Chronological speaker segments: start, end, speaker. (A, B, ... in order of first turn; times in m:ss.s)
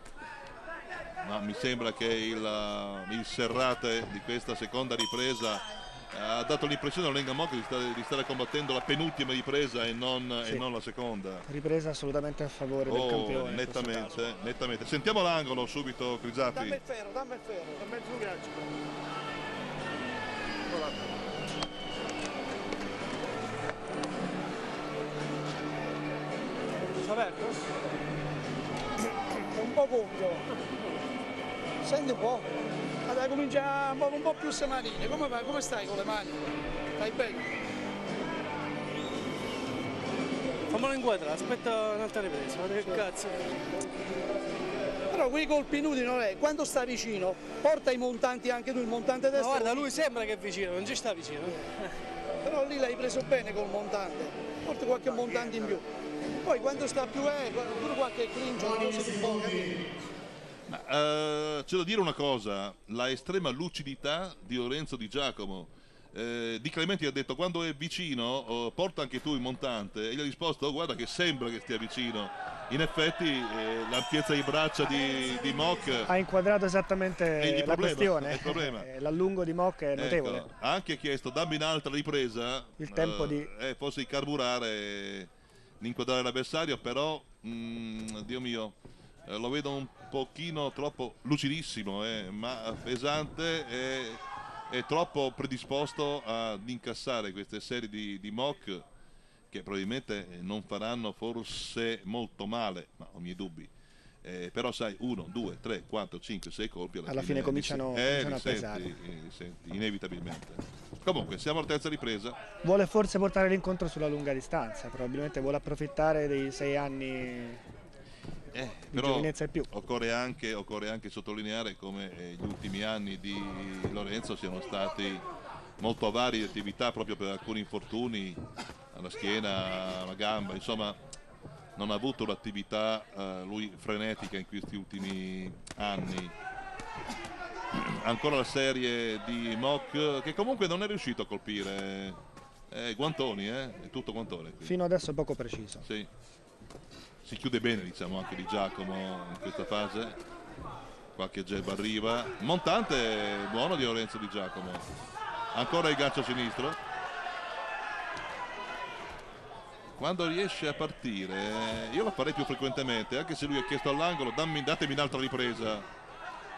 0:01.2-0:11.4 A
0:11.4-0:14.4 B
0:12.8-0:16.8 A
0:16.5-0:18.7 C
0:27.1-0:27.4 D
0:29.2-0:30.4 C
0:31.8-0:32.5 C
0:33.0-0:37.5 C
0:40.7-0:43.5 D
0:45.1-0:49.9 C
0:49.3-0:51.9 D
0:52.4-0:55.8 C
0:56.4-0:59.9 C
1:00.7-1:16.1 A
1:16.1-1:20.4 B
1:17.4-1:18.9 A
1:19.9-1:28.7 A
1:22.8-1:23.5 B
1:29.2-1:38.8 A
1:39.5-1:43.7 A
1:44.2-1:52.4 A
1:47.0-1:48.9 B
1:52.6-1:57.6 B
1:58.5-2:05.2 A
1:58.9-1:59.7 B
2:05.8-2:08.4 A
2:08.9-2:11.0 A
2:11.8-2:16.3 A
2:17.7-2:22.2 A
2:22.7-2:24.7 A
2:24.6-2:25.8 B
2:25.8-2:26.1 A
2:27.2-2:30.2 A
2:31.1-2:34.8 A
2:35.5-2:36.8 A
2:40.0-2:45.9 A